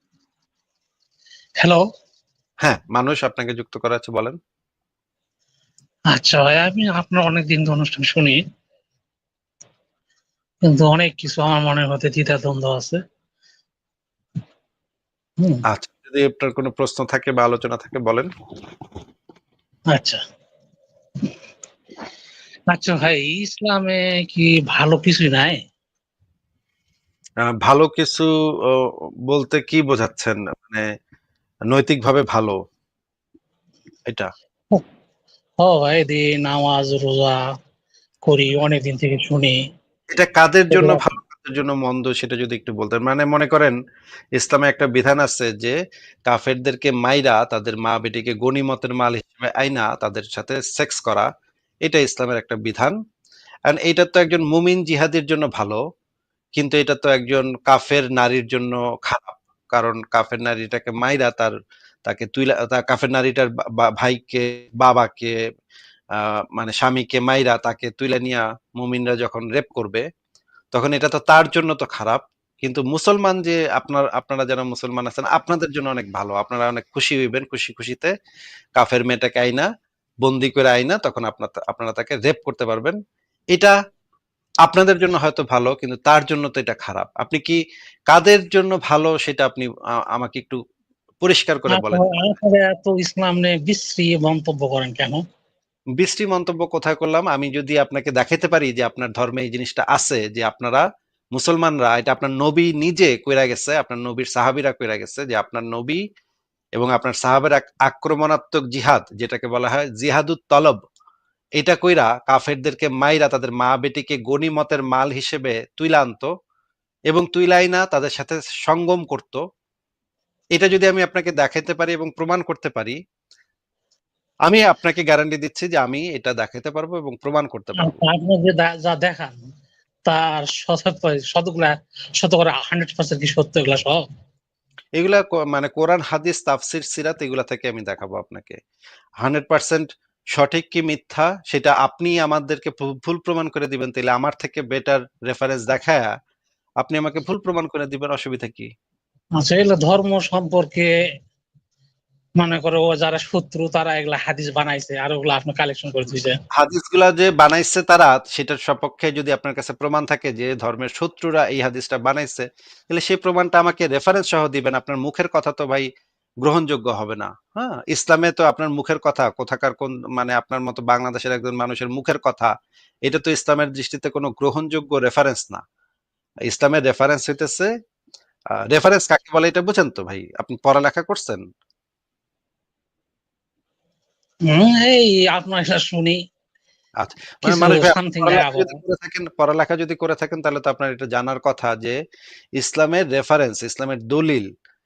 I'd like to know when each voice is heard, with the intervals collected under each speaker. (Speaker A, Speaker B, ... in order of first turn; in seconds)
Speaker A: 1.6-1.8, 6.1-8.4, 10.7-13.0, 19.9-20.2, 22.7-25.6, 35.6-37.4, 38.2-39.6, 40.7-41.0, 91.7-95.2, 127.8-129.4, 130.1-134.0, 149.4-150.9, 152.4-156.4, 184.5-186.2, 187.4-188.8
Speaker B: 2.6-4.4, 15.7-18.3, 27.4-30.9, 31.7-32.6, 40.1-43.8, 44.4-51.3, 51.9-53.0, 53.7-55.8, 56.6-61.5, 62.1-65.3, 66.2-70.1, 70.7-78.1, 78.8-79.7, 80.2-83.0, 84.6-90.6, 91.2-92.1, 96.0-106.0, 106.8-110.8, 111.6-116.3, 117.1-119.4, 120.5-123.0, 124.5-128.0, 135.0-138.6, 139.2-146.1, 146.8-148.7, 156.6-165.9, 166.4-172.5, 173.1-175.6, 176.5-177.7, 178.7-181.4, 187.0-192.0, 192.6-194.5